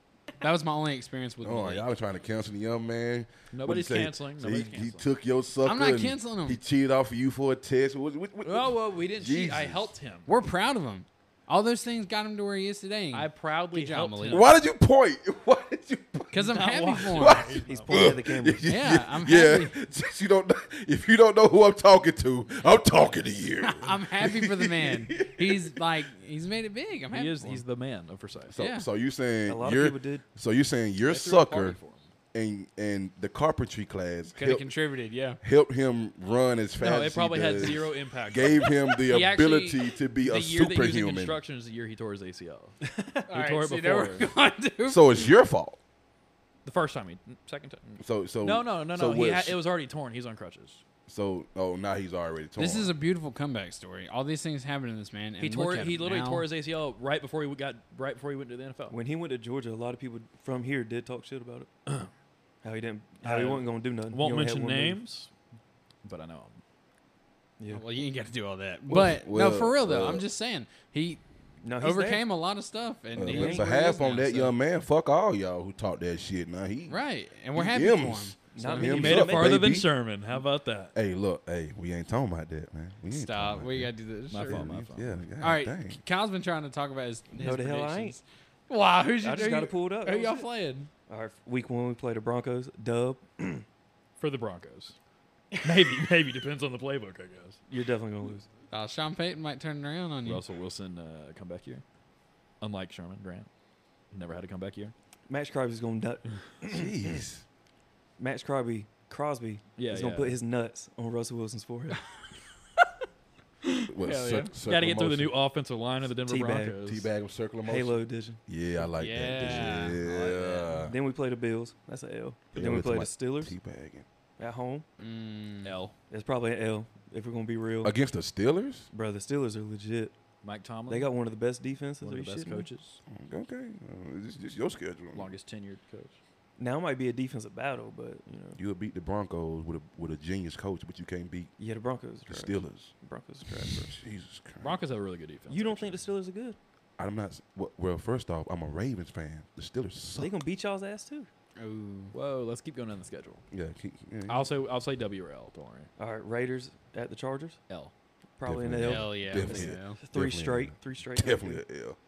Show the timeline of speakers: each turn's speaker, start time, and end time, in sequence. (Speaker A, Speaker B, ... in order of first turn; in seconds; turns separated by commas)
Speaker A: 0.4-1.8, Speaker B: 1.4-9.9, Speaker C: 3.5-5.1, Speaker A: 5.6-6.6, Speaker C: 8.4-10.3, Speaker A: 10.3-14.5, Speaker C: 13.1-14.5, Speaker B: 14.3-16.6, Speaker A: 16.3-17.6, Speaker C: 16.5-18.2, Speaker B: 17.1-25.8, Speaker D: 17.7-18.7, Speaker A: 18.6-19.8, Speaker A: 23.6-27.6, Speaker C: 27.1-28.6, Speaker B: 28.5-31.8, Speaker A: 28.6-28.9, Speaker D: 29.5-30.2, Speaker C: 31.0-32.1, Speaker B: 32.3-34.7, Speaker A: 34.4-35.4, Speaker B: 35.4-41.4, Speaker C: 36.8-44.3, Speaker A: 43.3-45.1, Speaker B: 44.9-45.8, Speaker C: 46.6-50.8, Speaker B: 48.0-49.6, Speaker B: 51.1-52.9, Speaker A: 52.6-56.5, Speaker C: 55.4-59.0, Speaker D: 58.9-61.7, Speaker D: 62.6-65.0, Speaker C: 63.2-65.3, Speaker C: 66.0-66.6, Speaker A: 67.7-71.2, Speaker B: 68.9-70.2, Speaker D: 71.6-72.2, Speaker A: 71.8-74.5, Speaker B: 73.2-77.0, Speaker D: 73.2-73.7, Speaker A: 76.9-78.9, Speaker B: 77.5-79.9, Speaker D: 78.5-79.6, Speaker C: 78.8-80.9, Speaker B: 80.9-83.9, Speaker A: 83.1-84.7, Speaker C: 84.3-85.2, Speaker B: 84.4-86.0, Speaker A: 85.4-90.9, Speaker D: 87.4-88.2, Speaker D: 89.2-90.5, Speaker D: 91.1-93.7, Speaker C: 94.2-95.0, Speaker C: 95.6-97.6, Speaker D: 97.7-98.5, Speaker A: 98.7-100.4, Speaker C: 100.2-101.8, Speaker C: 102.6-103.5, Speaker C: 104.1-104.9, Speaker D: 105.3-107.2, Speaker B: 106.7-107.4, Speaker D: 108.2-112.0, Speaker C: 109.8-110.4, Speaker A: 113.7-114.5, Speaker B: 113.9-115.3, Speaker C: 114.7-117.1, Speaker D: 116.3-116.8, Speaker B: 116.8-121.0, Speaker D: 117.6-118.4, Speaker A: 119.0-120.0, Speaker C: 119.5-120.9, Speaker D: 120.8-123.5, Speaker B: 122.5-124.0, Speaker D: 124.4-124.9, Speaker A: 125.0-125.7, Speaker C: 125.6-126.0, Speaker D: 126.1-128.0, Speaker B: 127.8-128.9, Speaker D: 128.9-130.2, Speaker C: 130.4-131.1, Speaker D: 130.9-132.7, Speaker C: 132.0-133.0, Speaker B: 133.1-135.3, Speaker C: 135.1-136.2, Speaker D: 136.6-138.6, Speaker B: 138.6-141.5, Speaker D: 141.6-143.9, Speaker B: 142.3-142.9, Speaker B: 143.7-144.8, Speaker C: 144.6-146.1, Speaker D: 145.5-146.6, Speaker B: 147.0-150.3, Speaker D: 150.2-151.3, Speaker A: 151.6-152.1, Speaker C: 152.1-153.4, Speaker B: 153.5-154.5, Speaker C: 154.3-155.9, Speaker D: 156.0-157.6, Speaker D: 158.4-161.6, Speaker B: 158.4-162.0, Speaker A: 158.8-160.0